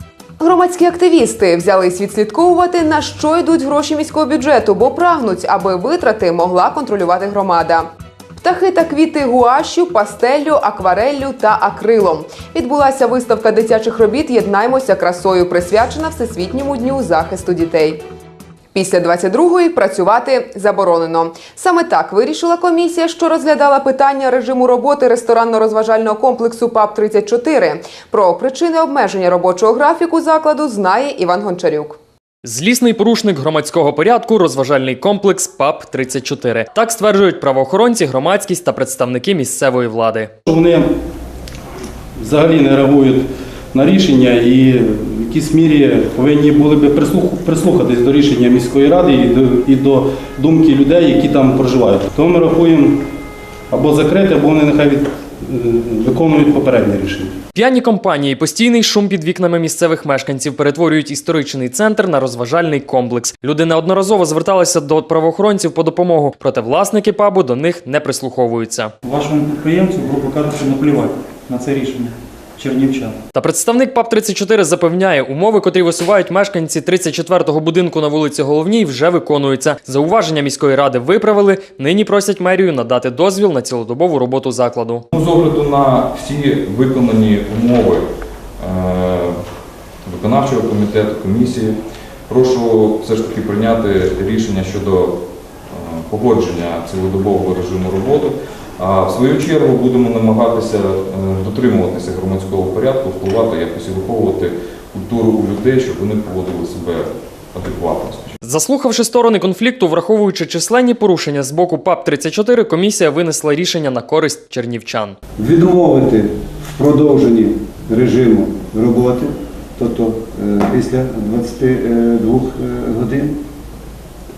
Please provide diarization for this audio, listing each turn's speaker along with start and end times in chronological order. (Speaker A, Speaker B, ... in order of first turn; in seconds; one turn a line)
Speaker A: 0.4-7.9
Speaker A: 8.4-18.0
Speaker A: 18.7-32.0
Speaker B: 32.4-40.3
Speaker C: 40.5-40.9
Speaker C: 42.2-53.1
Speaker C: 53.7-57.4
Speaker B: 57.5-68.9
Speaker D: 69.1-72.0
Speaker D: 72.6-73.0
Speaker B: 73.3-85.0
Speaker E: 85.1-88.0
Speaker E: 88.6-89.3
Speaker E: 90.1-91.8
Speaker E: 92.3-95.1
Speaker E: 95.7-108.3
Speaker B: 108.4-115.2
Speaker F: 115.4-123.3